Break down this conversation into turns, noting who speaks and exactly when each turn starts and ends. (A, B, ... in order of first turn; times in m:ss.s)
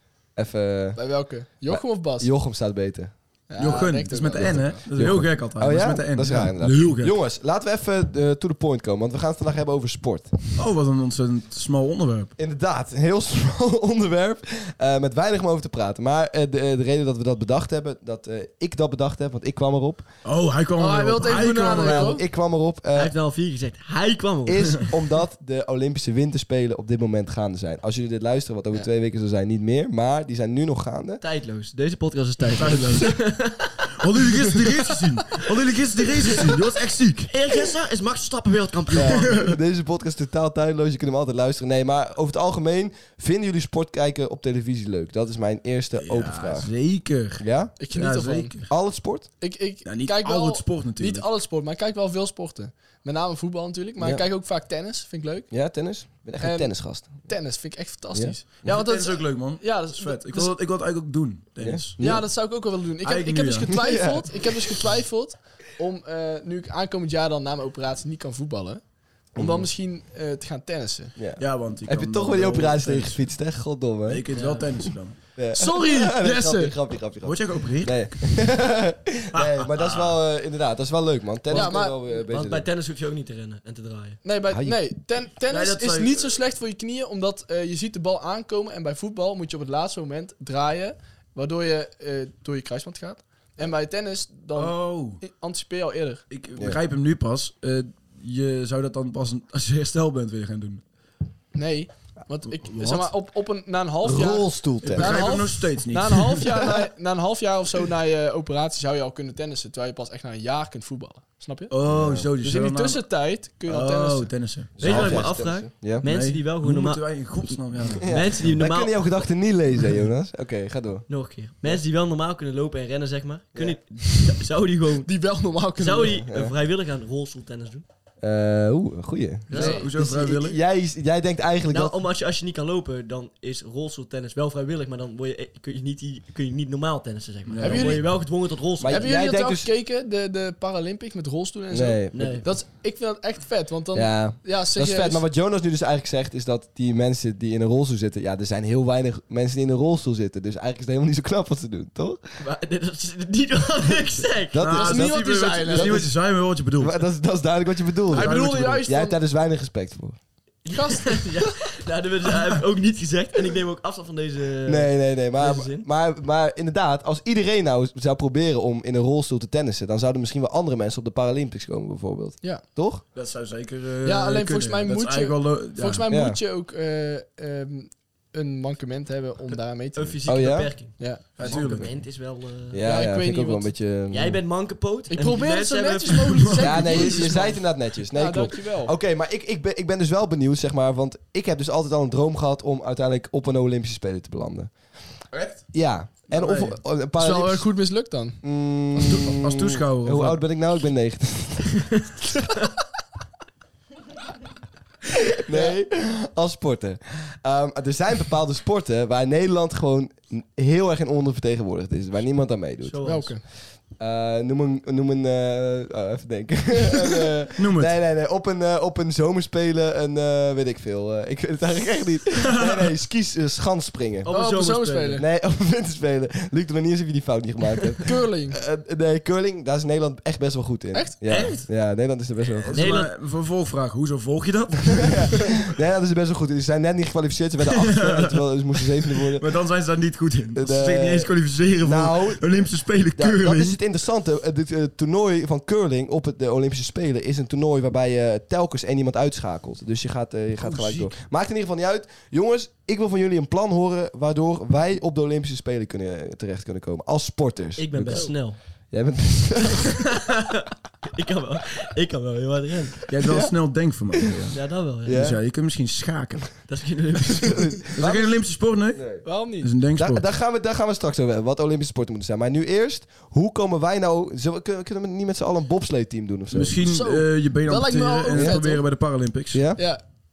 0:00.3-0:01.0 A
0:00.9-0:02.3 B
0:01.7-0:10.4 A
0:03.5-0:04.9 B
0:03.6-0:07.1 C
0:10.6-0:12.3 C
0:12.4-0:20.1 A
0:20.2-0:22.2 C
0:20.8-0:22.2 B
0:21.5-0:23.1 A
0:22.9-0:24.9 D
0:24.4-0:31.2 A
0:31.2-0:34.6 D
0:32.6-0:33.2 C
0:34.0-0:37.3 C
0:37.3-0:39.5 D
0:38.9-0:46.7 A
0:46.0-0:48.7 C
0:47.4-0:47.7 A
0:47.8-0:48.7 B
0:48.7-0:49.3 A
0:49.4-0:55.5 B
0:49.8-0:51.3 C
0:55.5-0:57.3 A
0:56.4-1:00.5 B
0:58.1-0:58.7 A
0:58.6-1:02.0 C
1:01.6-1:02.3 A
1:02.0-1:08.8 B
1:03.0-1:03.8 C
1:03.7-1:04.4 A
1:09.3-1:11.1 B
1:09.4-1:09.7 A
1:11.2-1:14.2 A
1:11.4-1:13.2 C
1:14.1-1:15.2 C
1:14.3-1:14.6 D
1:15.4-1:22.6 A
1:15.5-1:16.7 B
1:17.2-1:18.3 C
1:19.3-1:20.2 C
1:21.5-1:22.0 B
1:21.5-1:24.2 D
1:24.2-1:36.2 B
1:24.5-1:24.8 A
1:25.5-1:26.4 C
1:34.5-1:35.2 C
1:36.3-1:40.8 C
1:41.5-1:51.7 B
1:42.6-1:43.1 C
1:44.0-1:45.3 A
1:44.8-1:46.4 C
1:51.7-1:53.0 C
1:51.9-1:52.3 A
1:52.4-1:54.4 B
1:53.6-1:55.2 C
1:54.8-1:56.0 A
1:54.8-1:59.2 D
1:56.0-1:58.1 C
1:58.0-2:01.0 A
2:01.1-2:05.1 D
2:03.5-2:03.8 A
2:05.0-2:06.2 B
2:05.7-2:07.8 D
2:06.2-2:06.5 A
2:08.2-2:12.0 A
2:09.5-2:09.9 B
2:09.5-2:10.6 C
2:11.7-2:19.1 D
2:17.5-2:18.0 C
2:17.6-2:18.3 B
2:18.8-2:19.7 A
2:18.9-2:25.2 B
2:21.7-2:22.4 A
2:22.1-2:22.4 D
2:23.9-2:32.2 A
2:32.4-2:34.7 D
2:34.5-2:36.1 A
2:34.6-2:37.0 C
2:34.7-2:36.1 B
2:36.8-2:40.2 A
2:38.1-2:39.1 B
2:38.1-2:38.9 C
2:40.6-2:45.8 D
2:40.7-2:41.7 B
2:44.6-2:53.0 A
2:53.1-2:56.0 C
2:54.0-3:00.2 B
2:56.1-2:56.4 A
2:59.9-3:02.8 D
3:00.2-3:00.9 A
3:01.0-3:01.6 B
3:01.4-3:01.9 C
3:01.4-3:01.9 A
3:02.7-3:04.4 A
3:02.8-3:03.7 B
3:04.1-3:07.6 D
3:05.1-3:08.9 B
3:06.1-3:07.1 C
3:06.6-3:15.0 A
3:15.7-3:17.7 A
3:17.1-3:18.4 B
3:18.4-3:22.1 A
3:19.0-3:20.4 C
3:25.3-3:33.3 A
3:32.8-3:33.3 D
3:33.0-3:33.4 B
3:33.9-3:44.3 A
3:37.6-3:37.9 C
3:42.5-3:42.9 C
3:44.2-3:45.2 D
3:44.3-3:45.2 B
3:45.2-3:52.8 A
3:48.0-3:48.6 B
3:51.2-3:51.6 C
3:52.4-3:55.6 C
3:52.7-3:53.1 D
3:55.0-3:59.4 A
3:57.6-4:03.8 C
4:00.5-4:02.6 A
4:03.1-4:20.0 A
4:10.6-4:11.1 C
4:17.8-4:18.6 D
4:20.0-4:23.0 D
4:23.1-4:26.5 C
4:23.2-4:23.5 A
4:24.5-4:25.2 D
4:25.0-4:25.4 A
4:26.7-4:27.7 D
4:27.5-4:29.2 A
4:28.0-4:30.2 C
4:29.2-4:29.7 B
4:29.9-4:36.8 A
4:36.5-4:39.7 C
4:36.8-4:38.8 B
4:38.3-4:38.6 A
4:39.5-4:39.8 A
4:39.8-4:40.0 B